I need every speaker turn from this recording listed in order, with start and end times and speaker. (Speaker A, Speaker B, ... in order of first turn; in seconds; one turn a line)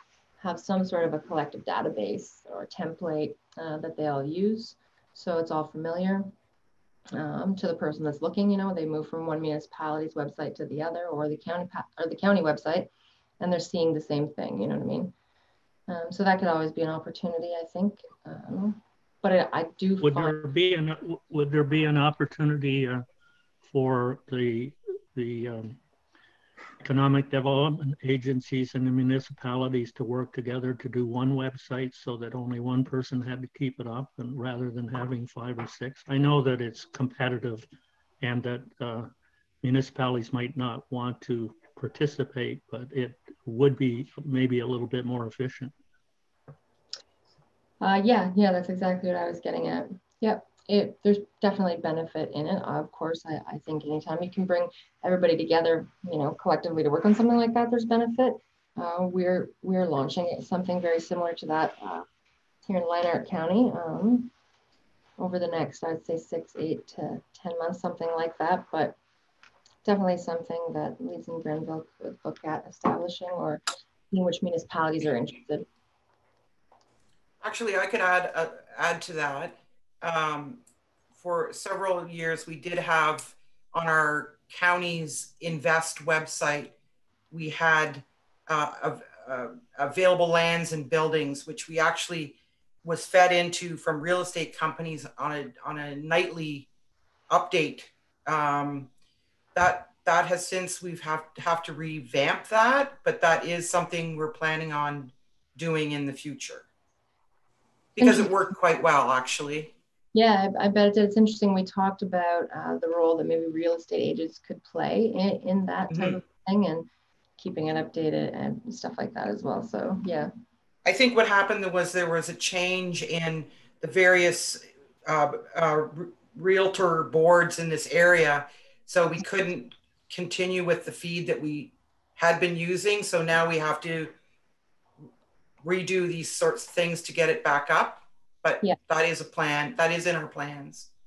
Speaker A: 0.4-6.3
Speaker A: 7.1-12.9
Speaker A: 13.4-15.1
Speaker A: 15.9-20.4
Speaker B: 20.0-23.0
Speaker B: 23.6-25.8
Speaker B: 26.8-37.7
Speaker B: 38.2-39.1
Speaker B: 39.6-45.7
Speaker A: 47.8-62.0
Speaker A: 62.7-64.3
Speaker A: 65.2-69.0
Speaker A: 69.8-75.7
Speaker C: 77.4-80.6
Speaker C: 81.2-86.7
Speaker C: 87.3-96.7
Speaker C: 97.3-98.9
Speaker C: 99.5-106.7
Speaker C: 108.0-109.7
Speaker A: 110.1-116.9
Speaker C: 115.9-116.2
Speaker A: 117.4-120.3
Speaker C: 120.8-134.1
Speaker C: 135.6-140.9